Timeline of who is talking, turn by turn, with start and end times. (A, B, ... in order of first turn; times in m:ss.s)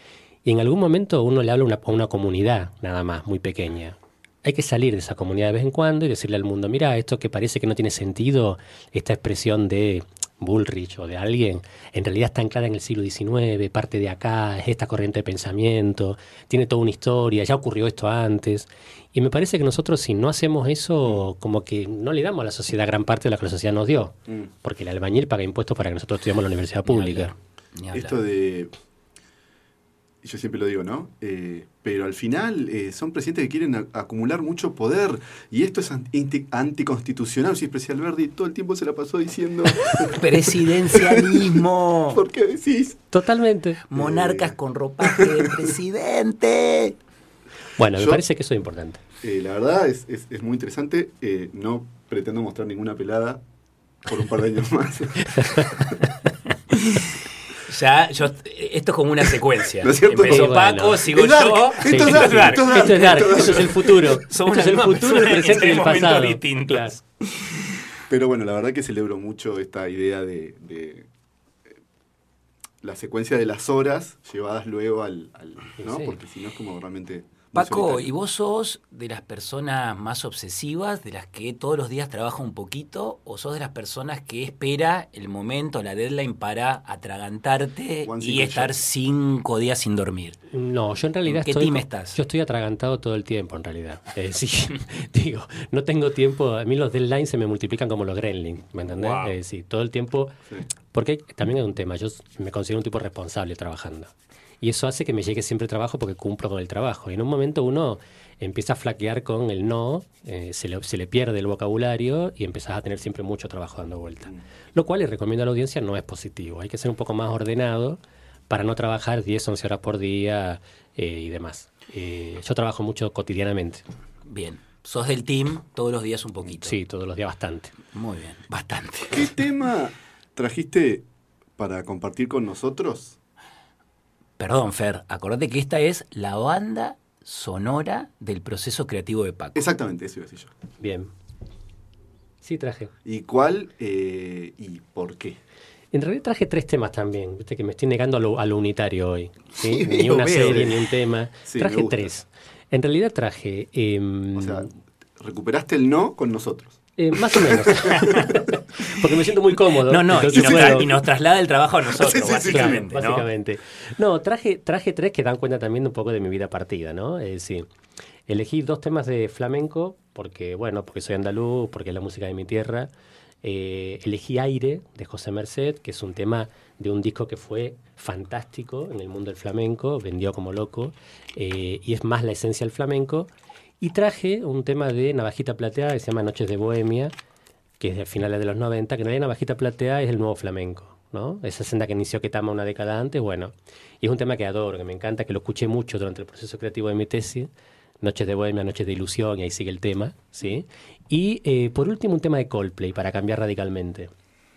0:00.4-0:27.3 A
0:26.9-0:28.2 B
0:27.9-0:28.7 C
0:30.2-0:43.0 C
0:39.8-0:42.2 B
0:43.1-0:43.8 A
0:43.9-0:47.0 B
0:43.9-0:45.7 C
0:47.8-0:49.0 A
0:48.0-0:48.2 C
0:49.2-0:53.4 C
0:54.0-0:56.0 C
0:56.7-0:57.0 B
0:57.6-1:07.7 B
0:59.8-1:03.9 C
1:00.2-1:01.0 A
1:01.9-1:07.0 A
1:08.1-1:11.1 C
1:12.8-1:18.1 C
1:15.8-1:16.2 A
1:17.6-1:30.4 B
1:28.0-1:28.8 C
1:30.5-1:40.4 A
1:31.3-1:32.2 B
1:38.9-1:39.4 B
1:40.9-2:03.8 A
2:04.2-2:06.8 B
2:06.5-2:07.7 A
2:07.9-2:09.3 B
2:09.1-2:11.0 C
2:11.6-2:13.2 C
2:14.4-2:19.6 B
2:19.6-2:20.5 C
2:20.8-2:21.1 A
2:22.4-2:22.9 A
2:23.0-2:25.4 C
2:25.9-2:34.7 A
2:29.6-2:30.8 C
2:31.4-2:32.1 C
2:34.4-2:34.7 C
2:35.2-2:36.8 C
2:37.0-2:40.9 A
2:37.3-2:38.3 C
2:37.8-2:38.4 B
2:39.7-2:43.3 B
2:40.3-2:41.0 C
2:41.9-2:42.9 C
2:42.4-2:47.6 A
2:48.3-2:52.9 A
2:53.4-3:03.3 A
3:03.8-3:07.1 A
3:07.8-3:17.5 A
3:18.0-3:24.1 A